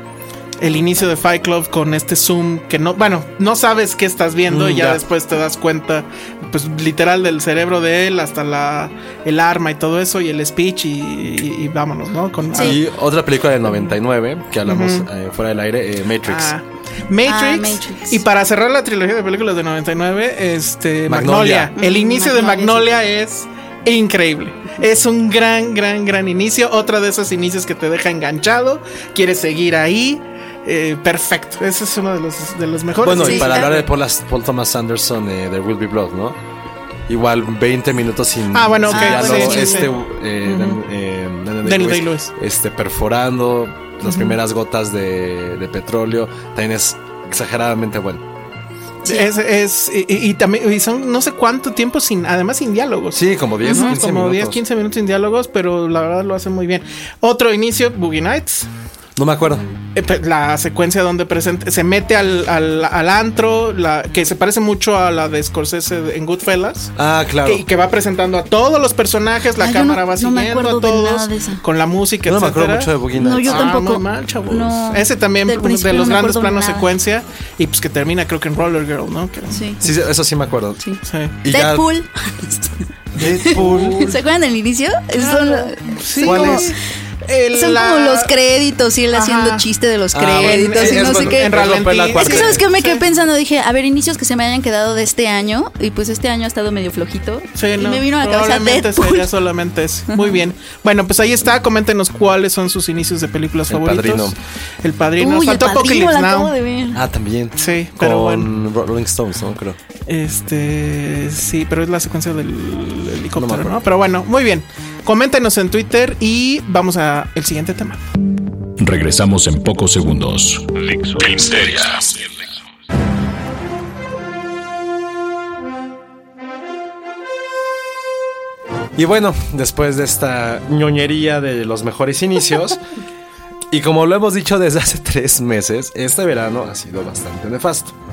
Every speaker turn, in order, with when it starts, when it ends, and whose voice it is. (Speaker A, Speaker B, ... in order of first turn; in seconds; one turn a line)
Speaker A: 0.6-12.8
Speaker B: 4.5-5.0
Speaker B: 12.6-16.5
Speaker A: 13.7-13.9
Speaker A: 14.7-15.1
Speaker A: 16.2-33.9
Speaker C: 17.2-18.2
Speaker B: 21.1-21.7
Speaker C: 21.8-22.9
Speaker B: 33.0-36.4
Speaker C: 33.1-33.7
Speaker B: 37.1-48.2
Speaker A: 38.5-39.9
Speaker C: 38.9-39.9
Speaker A: 40.5-40.8
Speaker A: 41.6-42.3
Speaker A: 44.1-44.4
Speaker A: 49.0-58.7
Speaker B: 53.1-54.6
Speaker C: 53.6-54.0
Speaker B: 59.2-59.6
Speaker A: 60.0-66.9
Speaker B: 67.0-67.7
Speaker A: 67.5-72.9
Speaker C: 69.6-71.6
Speaker B: 72.3-73.7
Speaker C: 73.1-76.9
Speaker A: 73.4-79.7
Speaker C: 79.5-79.8
Speaker B: 79.8-80.8
Speaker C: 80.8-82.7
Speaker A: 81.0-81.4
Speaker B: 81.4-81.9
Speaker B: 83.2-84.1
Speaker A: 83.5-84.2
Speaker C: 83.5-86.7
Speaker A: 85.2-88.3
Speaker B: 86.2-86.7
Speaker C: 87.5-99.3
Speaker A: 89.1-89.7
Speaker B: 90.1-92.6
Speaker A: 90.4-93.0
Speaker A: 97.6-106.5
Speaker C: 100.1-100.4
Speaker B: 103.7-104.4
Speaker C: 105.2-107.0
Speaker B: 106.9-109.8
Speaker A: 107.6-108.5
Speaker A: 110.1-118.0
Speaker B: 113.3-113.7
Speaker D: 118.8-122.3
Speaker B: 129.0-132.8
Speaker B: 133.7-137.9